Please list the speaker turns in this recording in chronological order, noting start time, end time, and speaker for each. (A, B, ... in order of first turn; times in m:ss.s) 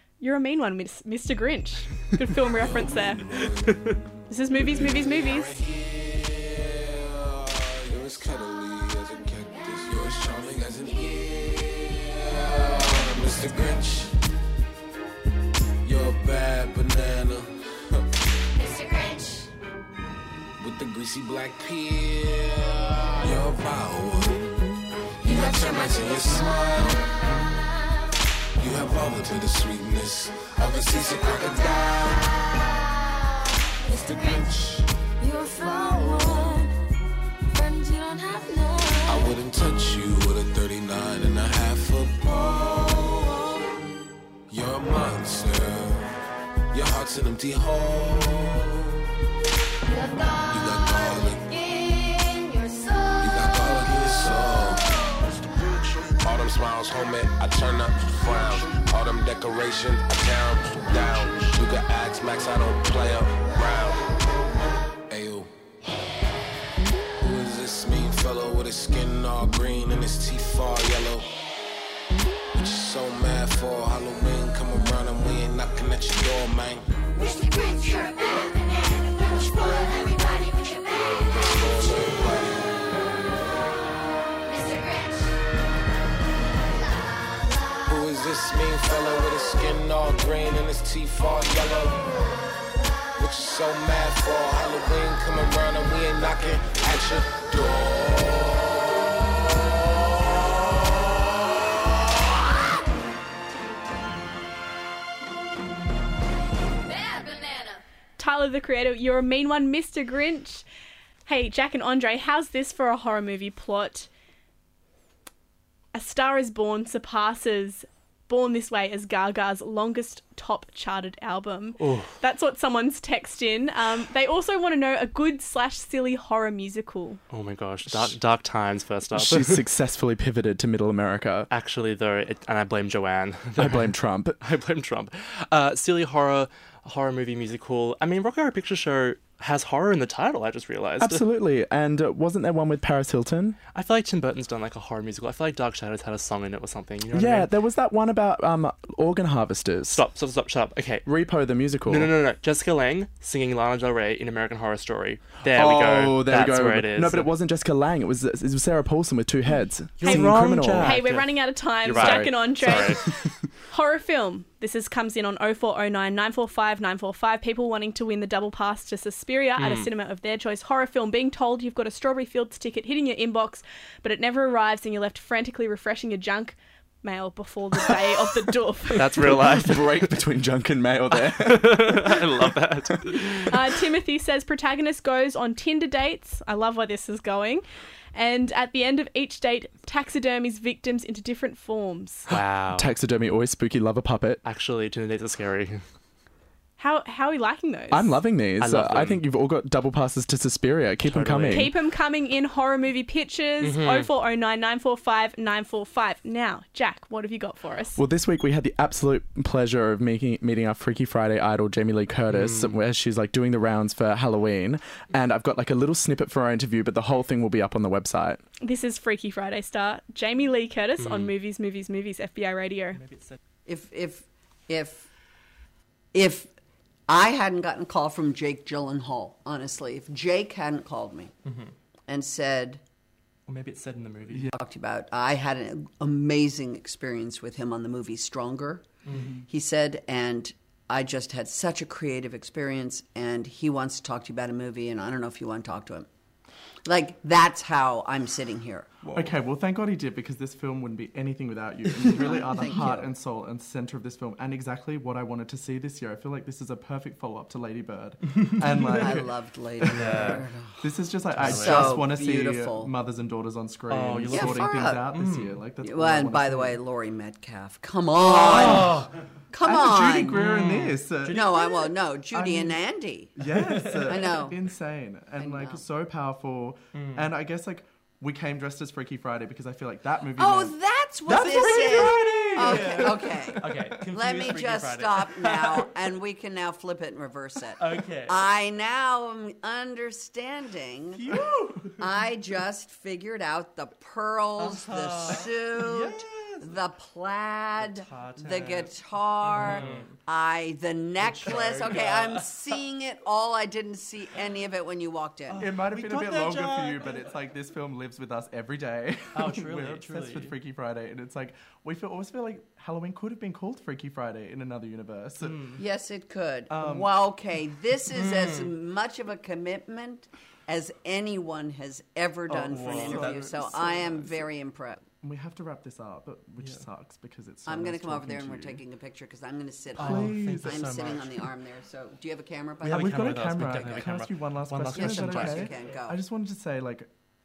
0:00.2-0:03.2 A
0:02.6-0:03.6 B
0:04.3-0:05.6 A
0:04.7-0:14.2 B
0:15.8-0:18.0 B
0:20.6-0:24.7 B
0:25.2-0:27.1 B
0:28.6-0:32.6 B
0:33.9-0:34.9 B
0:35.3-0:36.7 C
0:37.6-0:38.9 C
0:39.1-0:43.4 B
0:44.5-0:46.1 B
0:46.7-0:49.1 B
0:50.5-0:51.5 B
0:51.8-0:52.9 C
0:53.2-0:55.2 B
0:56.2-1:04.1 B
1:05.1-1:05.5 B
1:07.2-1:11.3 B
1:12.5-1:16.9 B
1:19.9-1:20.7 C
1:21.2-1:22.7 B
1:24.6-1:25.3 C
1:27.9-1:32.1 B
1:33.2-1:38.9 B
1:48.2-1:50.6 A
1:51.2-1:54.1 A
1:55.9-2:07.2 A
2:01.8-2:02.1 D
2:07.3-2:09.6 D
2:09.1-2:11.5 E
2:11.5-2:21.2 D
2:13.6-2:14.4 E
2:21.0-2:23.6 E
2:23.8-2:27.5 D
2:27.1-2:30.0 E
2:29.9-2:31.0 D
2:31.0-2:32.1 E
2:31.9-2:37.3 D
2:35.5-2:41.0 E
2:40.0-2:43.0 D
2:40.0-2:59.1 A
2:41.9-2:43.2 E
2:49.6-2:49.9 D
2:59.0-3:00.1 D
2:59.1-3:03.1 E
3:01.1-3:03.5 D
3:03.5-3:12.3 A
3:12.3-3:12.9 D
3:12.8-3:14.4 E
3:14.4-3:15.8 D
3:16.8-3:18.2 A
3:17.9-3:21.7 E
3:18.6-3:19.2 D
3:21.0-3:21.7 D
3:21.5-3:28.0 A
3:23.6-3:24.1 D
3:28.0-3:38.4 E
3:32.3-3:32.8 D
3:38.6-3:43.0 A
3:41.0-3:41.3 D
3:43.0-3:43.4 D
3:43.7-3:45.1 F
3:46.1-3:46.5 F
3:47.1-3:51.3 F
3:51.5-3:51.7 D
3:52.1-3:52.8 F
3:53.5-3:54.5 D
3:54.5-3:58.9 F
3:59.1-3:59.3 D
3:59.1-3:59.4 E
3:59.4-4:06.1 F
4:06.8-4:08.9 F
4:09.0-4:09.3 D
4:09.1-4:26.8 E
4:12.0-4:13.1 F
4:18.8-4:20.8 F
4:19.8-4:20.4 D
4:21.4-4:22.0 D
4:21.4-4:22.9 F
4:23.9-4:25.6 D
4:24.3-4:25.0 F
4:25.8-4:29.0 F
4:28.2-4:28.9 E
4:28.4-4:29.1 D
4:29.5-4:30.4 F
4:29.6-4:32.8 E
4:30.3-4:31.5 D
4:31.3-4:33.3 F
4:33.4-4:44.0 E
4:33.7-4:34.0 D
4:34.1-4:34.6 F
4:35.4-4:35.9 F
4:36.9-4:37.3 D
4:40.4-4:51.3 F
4:41.5-4:46.0 D
4:47.8-4:48.5 D
4:51.1-4:52.0 D
4:52.0-5:05.7 F
4:54.6-4:56.8 D
4:57.8-5:00.1 D
4:59.6-4:59.9 E
5:01.2-5:02.7 D
5:05.5-5:07.2 D
5:05.6-5:15.6 E
5:09.3-5:10.5 D
5:15.4-5:15.8 D
5:15.8-5:25.0 F
5:16.7-5:17.2 E
5:18.1-5:18.7 D
5:22.5-5:24.5 E
5:22.7-5:24.1 D
5:25.2-5:28.8 E
5:27.7-5:34.1 F
5:30.0-5:31.3 D
5:30.0-5:30.8 E
5:32.8-5:35.8 D
5:32.8-5:37.1 E
5:34.9-5:36.2 F